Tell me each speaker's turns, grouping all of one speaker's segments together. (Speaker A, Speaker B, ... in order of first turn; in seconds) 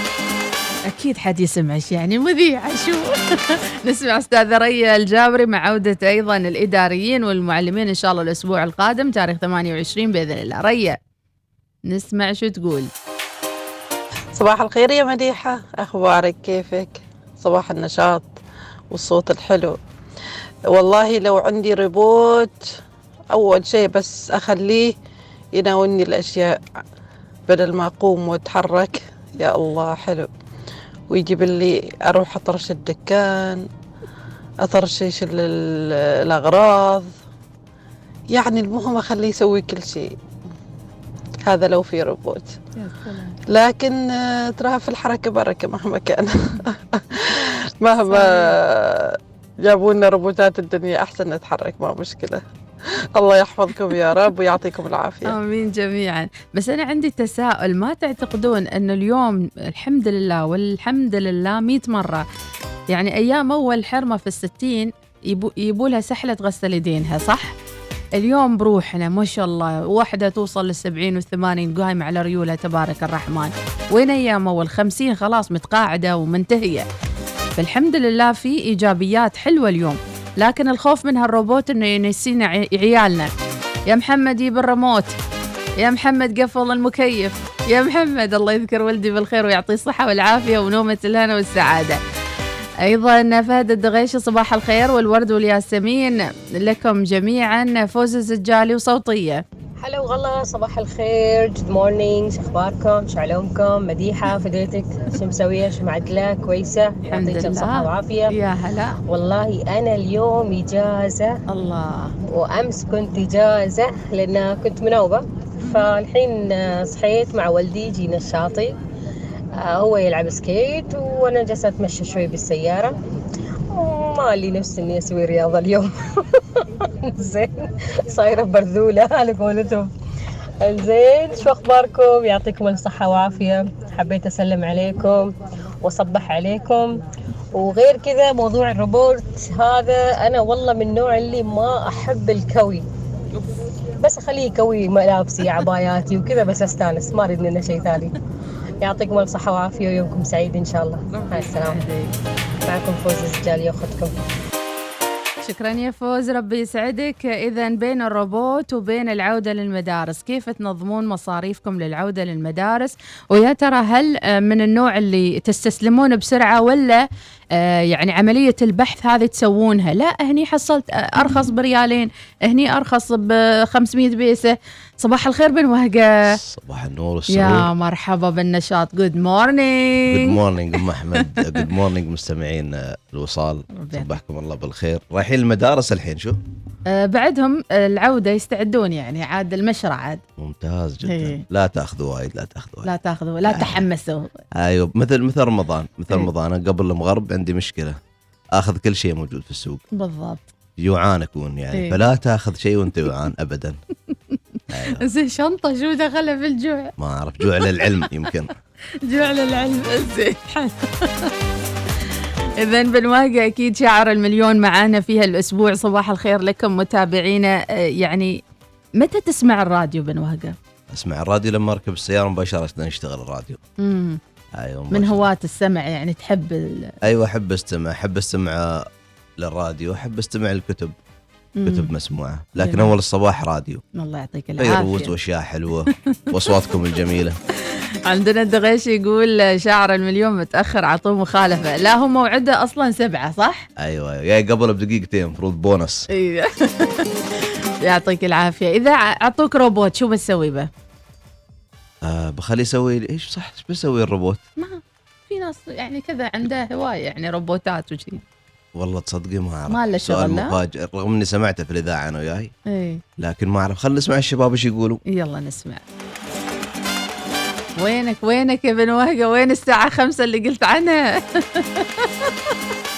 Speaker A: 0.9-11.0, 11.9-12.9, 42.8-43.4, 48.0-48.5, 55.2-62.2, 62.9-67.5, 68.2-76.8, 77.5-83.3, 83.9-85.1, 85.8-92.0, 92.8-99.4, 107.1-109.0, 111.5-112.1, 115.6-115.9, 151.1-152.1, 155.4-167.0, 167.6-176.4, 177.3-180.3, 181.4-181.6, 183.7-184.2, 186.9-190.2, 191.0-191.4, 192.8-194.4, 199.9-200.5, 201.7-202.0, 205.0-206.9, 207.6-207.8, 209.0-211.3, 212.6-218.4, 219.0-220.6, 223.8-224.2, 224.9-226.9, 231.6-231.9, 232.6-232.9, 233.9-235.1, 238.1-243.7, 246.1-247.1, 247.8-250.7, 254.6-258.2, 259.7-260.6, 262.7-263.0, 265.1-265.8, 267.8-272.5
Speaker B: 14.3-18.3, 18.9-19.8, 20.7-22.6, 23.3-24.9, 25.5-26.6, 27.5-30.3, 31.1-33.6, 34.6-37.1, 38.3-40.1, 41.5-42.5, 43.5-52.4, 53.1-55.4
Speaker C: 99.8-108.3, 109.1-111.4, 112.3-118.7, 119.6-123.0, 123.7-129.9, 130.6-136.9, 137.5-142.8, 144.0-148.1, 148.8-151.8, 152.7-154.1
Speaker D: 176.3-177.7, 180.1-186.4, 190.4-192.9, 193.4-193.8, 194.6-198.0, 198.6-199.8, 200.8-203.8, 204.7-205.0, 207.0-208.5, 220.9-223.6, 224.6-225.2, 227.0-228.9, 229.4-230.9, 231.6-233.8, 234.6-237.4, 243.8-246.1, 252.0-254.4, 258.8-262.5, 263.2-265.0